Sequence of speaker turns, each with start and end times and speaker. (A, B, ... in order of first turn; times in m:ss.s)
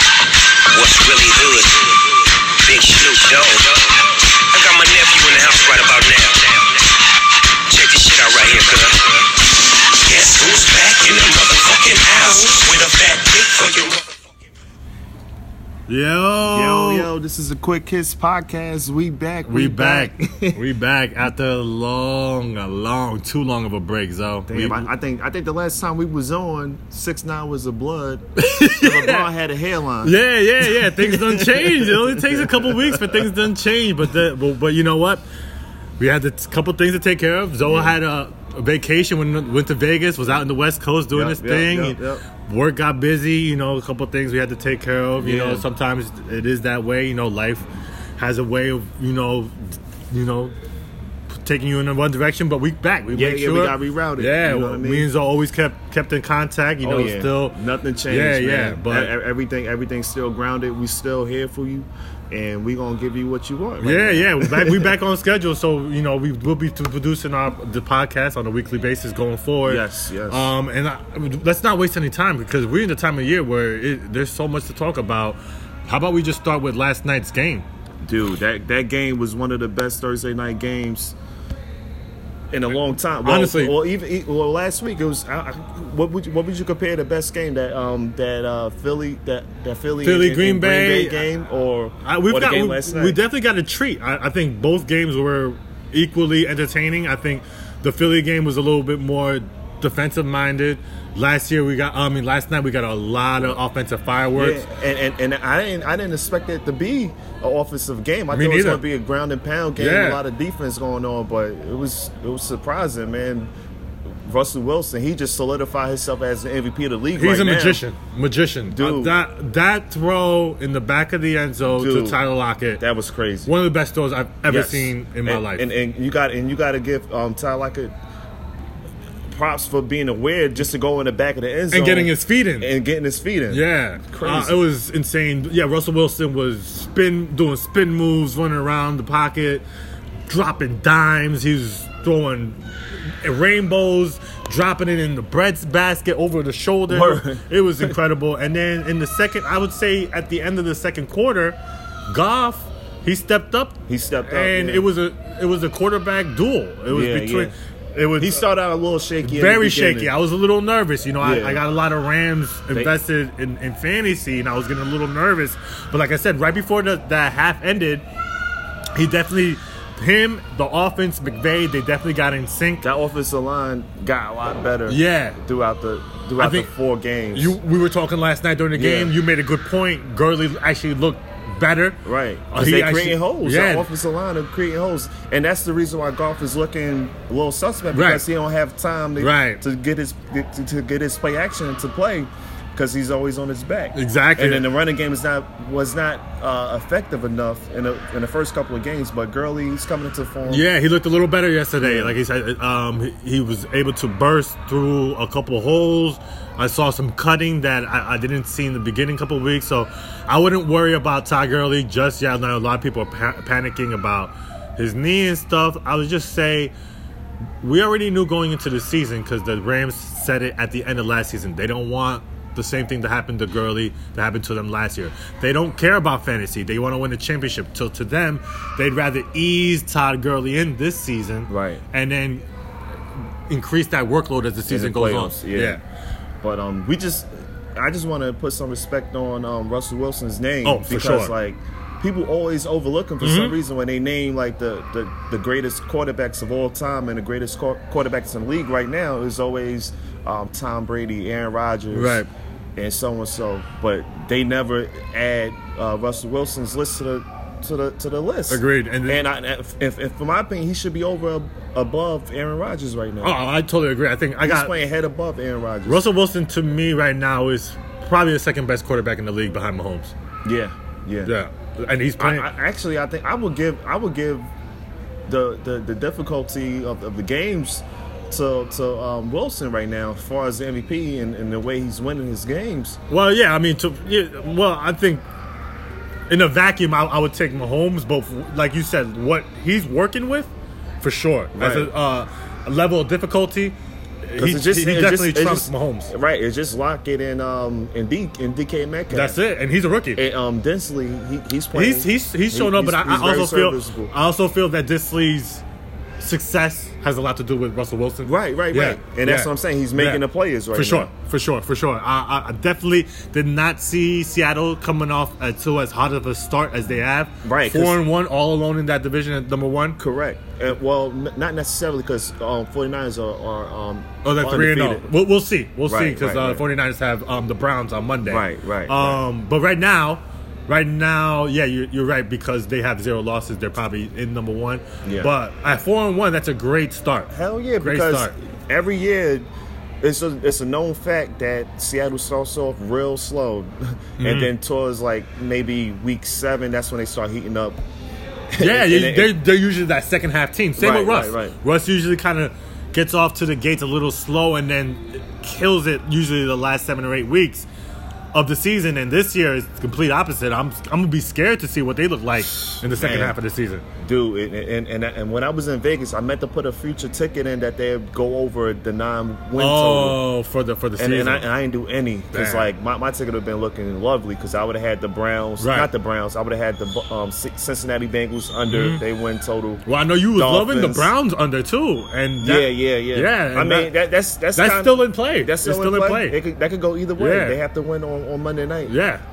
0:00.7-0:07.0 A
0:07.7-0:09.4 A
0:09.9-0:14.2 A
0:15.9-0:17.1 B
0:16.4-0:20.6 C
0:19.5-0:24.9 B
0:24.5-0:33.3 C
0:28.4-0:29.3 B
0:30.0-0:35.2 B
0:36.0-0:50.5 B
0:37.6-0:38.0 C
0:41.1-0:42.2 C
0:45.2-0:45.7 C
0:51.3-0:57.6 B
0:53.1-0:55.1 C
0:56.8-1:04.9 C
0:58.1-0:59.1 B
1:03.8-1:17.7 B
1:09.6-1:10.5 C
1:18.0-1:21.2 C
1:22.5-1:33.2 C
1:23.2-1:23.8 B
1:30.0-1:31.2 B
1:32.0-1:44.6 B
1:44.4-1:53.5 C
1:48.3-1:48.8 B
1:49.8-1:50.2 B
1:54.2-1:57.8 C
1:57.2-2:02.8 B
1:58.7-1:59.2 C
2:01.6-2:02.2 C
2:02.8-2:03.5 C
2:03.5-2:05.7 B
2:04.5-2:07.9 C
2:09.3-2:14.6 C
2:11.7-2:12.7 B
2:13.5-2:19.7 B
2:20.3-2:22.6 B
2:23.2-2:31.6 B
2:26.9-2:27.4 C
2:32.1-2:38.5 B
2:33.9-2:34.9 C
2:36.9-2:37.5 C
2:38.2-2:40.1 C
2:39.2-2:48.0 B
2:41.2-2:41.6 C
2:49.0-2:52.8 B
2:52.8-2:57.6 C
2:54.9-2:55.4 B
2:56.4-2:56.7 B
2:57.3-3:03.9 B
2:58.7-2:59.1 C
3:02.0-3:20.6 C
3:07.9-3:08.2 B
3:09.2-3:09.6 B
3:13.9-3:14.7 B
3:20.5-3:36.7 B
3:21.8-3:22.2 C
3:37.6-3:52.4 B
3:51.5-3:51.8 C
3:53.5-3:55.8 B
3:54.7-3:55.8 C
3:56.4-4:12.2 C
4:00.6-4:01.3 B
4:03.2-4:03.6 B
4:11.9-4:12.3 B
4:12.8-4:23.4 C
4:18.5-4:19.3 B
4:23.2-4:24.7 B
4:24.4-4:26.1 C
4:25.9-4:30.1 B
4:30.4-4:31.3 C
4:31.2-4:32.5 B
4:32.2-4:34.5 C
4:35.3-4:43.0 C
4:43.1-4:45.2 B
4:46.3-4:50.5 B
4:51.0-4:53.8 B
4:51.6-4:51.9 C
4:54.3-4:56.1 B
4:54.4-4:59.4 C
4:59.1-5:00.2 B
5:00.2-5:04.1 C
5:01.7-5:05.6 B
5:06.2-5:10.2 B
5:08.2-5:11.1 C
5:10.7-5:20.0 B
5:17.4-5:18.0 C
5:20.0-5:25.1 C
5:24.2-5:38.3 B
5:25.9-5:26.7 C
5:28.2-5:29.2 C
5:35.0-5:35.3 C
5:37.3-5:39.5 C
5:40.0-5:47.8 C
5:44.2-5:44.5 B
5:48.5-5:49.4 C
5:48.6-5:57.7 B
5:50.8-5:51.6 C
5:58.3-6:03.8 B
6:02.8-6:03.4 C
6:04.0-6:10.2 C
6:09.6-6:11.5 B
6:11.0-6:21.1 C
6:12.3-6:12.7 B
6:15.6-6:15.9 B
6:18.7-6:19.0 B
6:19.8-6:24.0 B
6:22.4-6:29.0 C
6:24.6-6:26.4 B
6:27.2-6:27.6 B
6:28.9-6:29.2 B